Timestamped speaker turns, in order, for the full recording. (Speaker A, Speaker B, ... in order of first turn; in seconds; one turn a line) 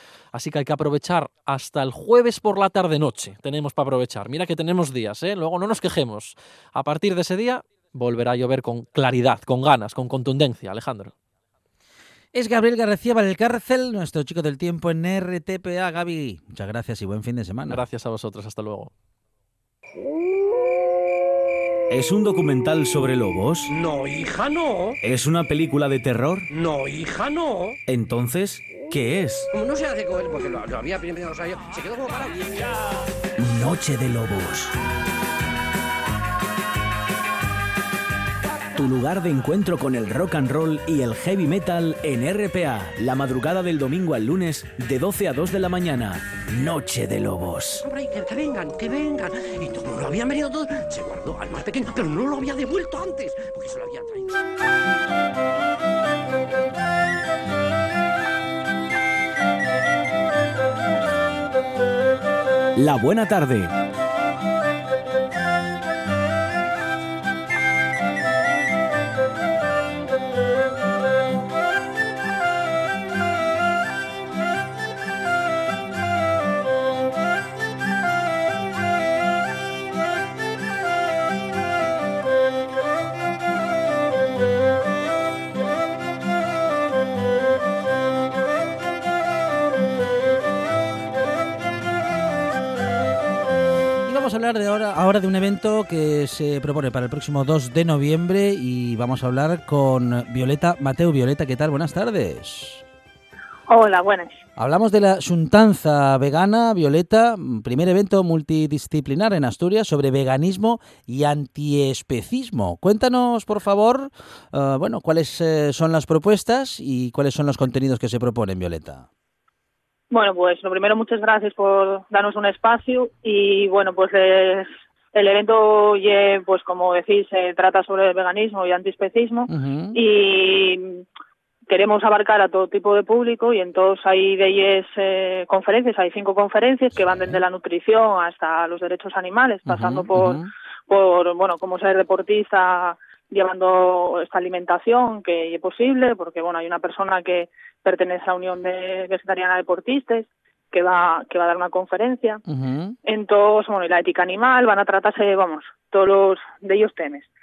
Speaker A: 0.3-11.1
Speaker B: 12.3-17.8
Speaker A: 17.7-18.9
Speaker C: 21.9-23.7
Speaker D: 23.7-25.0
Speaker C: 25.0-26.5
Speaker D: 26.5-27.8
Speaker C: 27.9-29.5
Speaker D: 29.5-33.0
Speaker C: 33.4-34.7
Speaker C: 38.7-47.8
Speaker D: 47.8-54.4
Speaker C: 62.8-63.7
Speaker B: 94.0-102.8
Speaker E: 103.7-104.3
Speaker B: 104.6-119.1
Speaker E: 120.1-131.0
Speaker B: 129.5-130.0
Speaker E: 131.7-152.4
Speaker B: 137.2-137.4
Speaker B: 139.7-140.5
Speaker B: 152.4-153.0
Speaker E: 153.1-157.3